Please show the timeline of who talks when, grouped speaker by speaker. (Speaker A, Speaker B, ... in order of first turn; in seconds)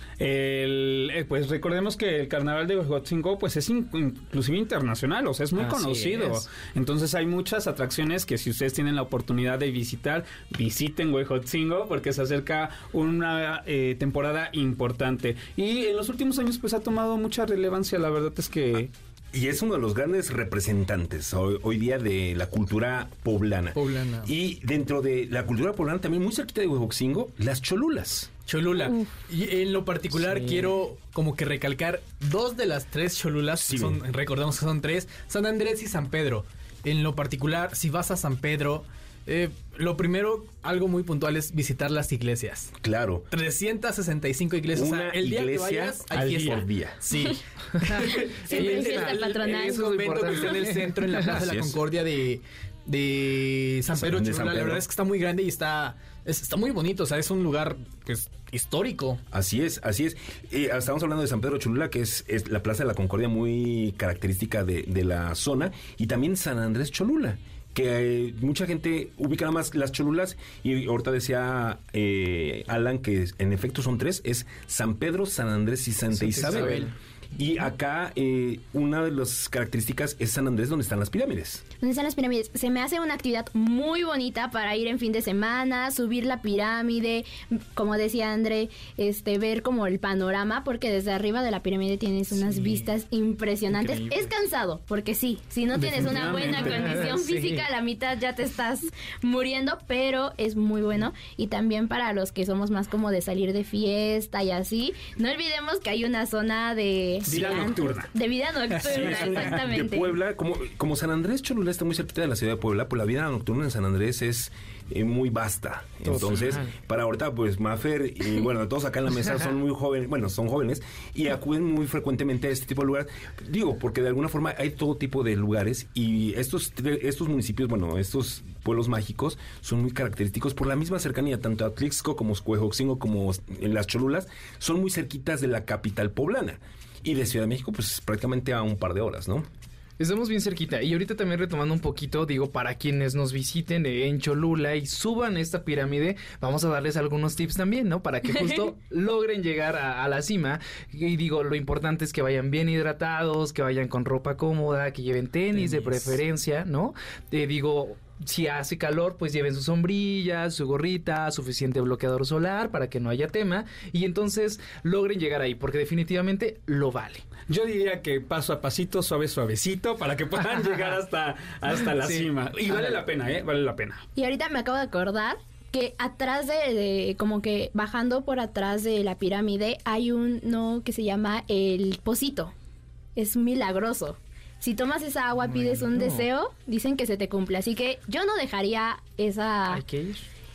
Speaker A: 0.2-18.9, 107.3-108.1, 109.0-109.5, 167.5-174.0
Speaker B: 5.6-6.5, 30.3-30.6, 47.8-51.4, 76.1-76.9, 92.3-92.9, 93.8-94.3, 95.8-97.7, 116.0-116.7, 140.0-167.2, 171.8-173.0, 185.4-186.3, 189.7-190.2
Speaker C: 19.3-28.3, 33.6-34.0, 42.8-43.3, 44.7-47.0, 51.3-51.8, 54.0-54.8, 59.3-81.6, 108.8-139.5
Speaker D: 23.8-24.3, 28.5-42.7, 43.3-47.4, 48.5-59.2
Speaker E: 48.5-49.8, 81.8-110.1, 174.2-182.5, 183.2-189.8